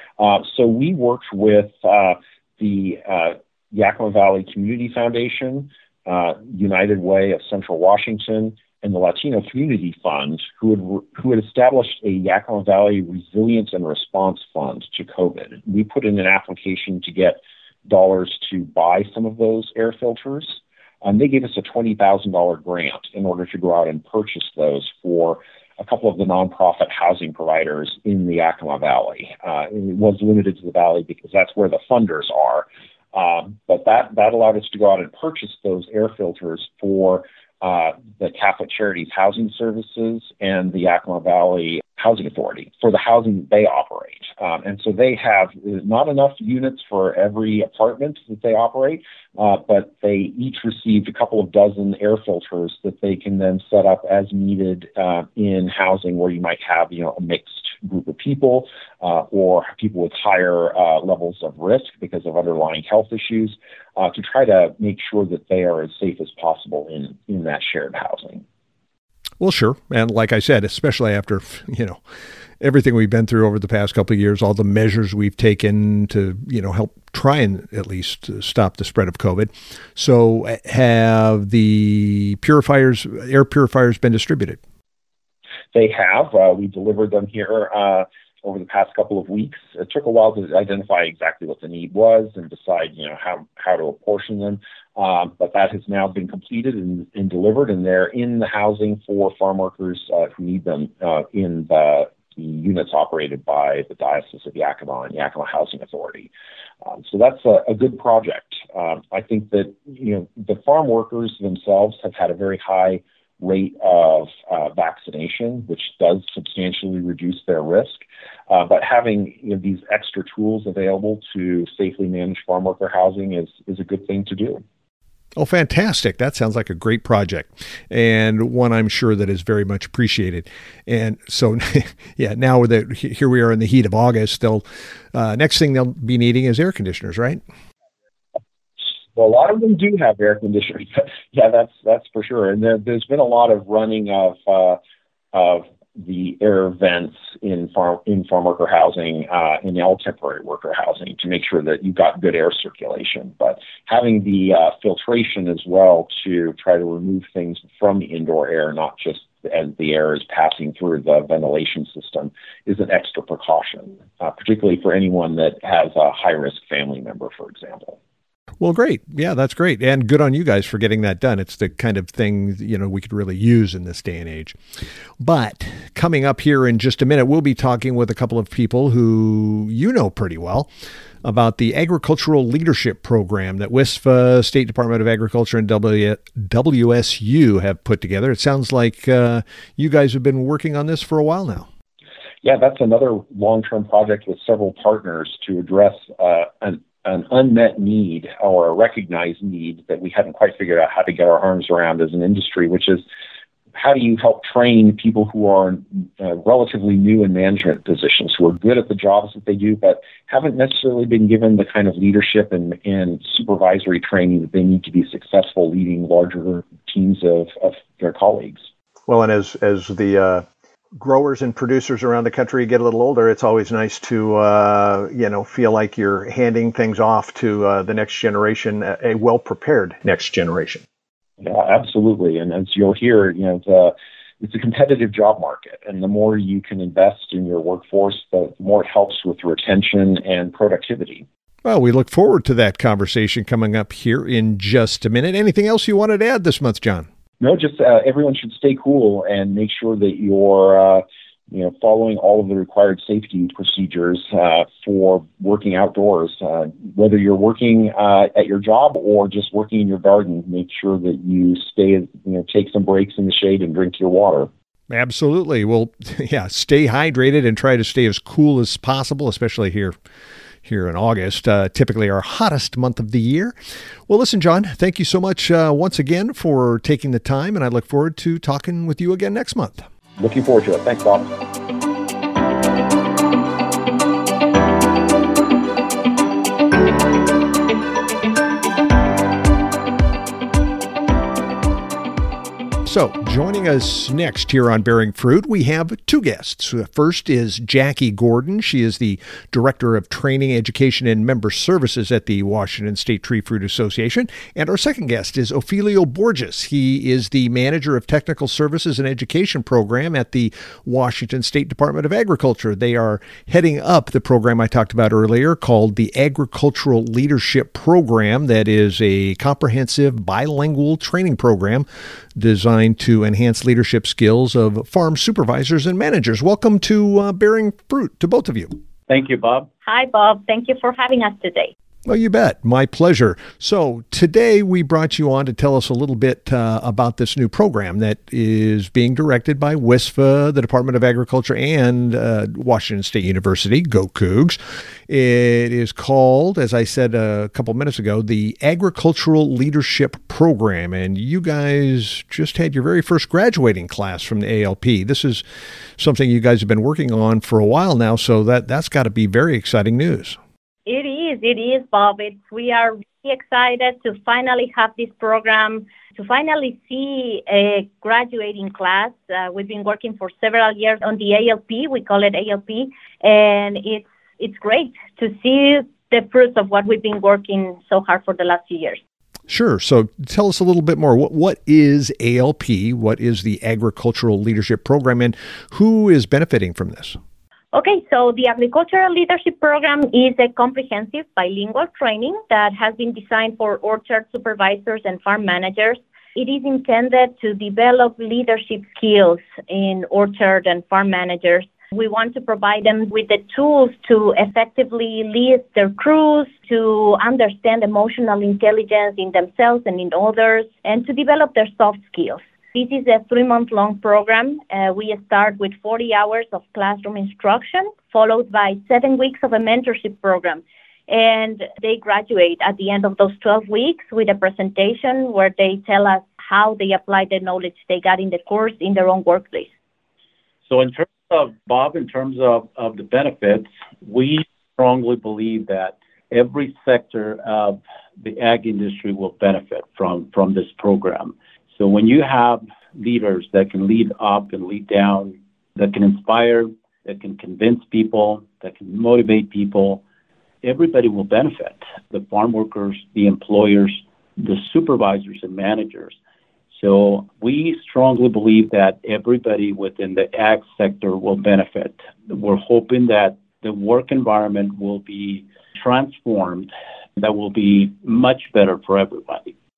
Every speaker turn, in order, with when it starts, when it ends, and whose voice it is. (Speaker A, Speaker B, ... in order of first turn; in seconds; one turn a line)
Speaker A: 0.2-68.4
Speaker B: 69.4-72.0
Speaker B: 72.6-84.6
Speaker A: 85.7-106.3
Speaker A: 106.8-124.6
Speaker B: 125.3-134.6
Speaker B: 135.1-137.4
Speaker A: 139.1-144.8
Speaker A: 145.3-168.0
Speaker B: 168.6-174.6
Speaker B: 175.2-180.7
Speaker B: 181.2-191.7
Speaker A: 192.4-203.0
Speaker A: 203.7-218.7
Speaker B: 219.1-230.8
Speaker A: 231.4-241.2
Speaker B: 241.6-247.1
Speaker A: 247.4-264.5
Speaker B: 264.9-269.9
Speaker B: 270.6-273.5
Speaker B: 274.1-279.9
Speaker A: 280.2-281.3
Speaker B: 292.8-328.7
Speaker C: 329.1-329.7
Speaker D: 329.8-331.7
Speaker B: 332.0-355.4
Speaker B: 356.0-360.4
Speaker D: 360.9-379.0
Speaker B: 379.5-387.2
Speaker D: 387.7-429.7
Speaker C: 430.7-450.0
Speaker C: 450.6-456.1
Speaker C: 456.7-469.5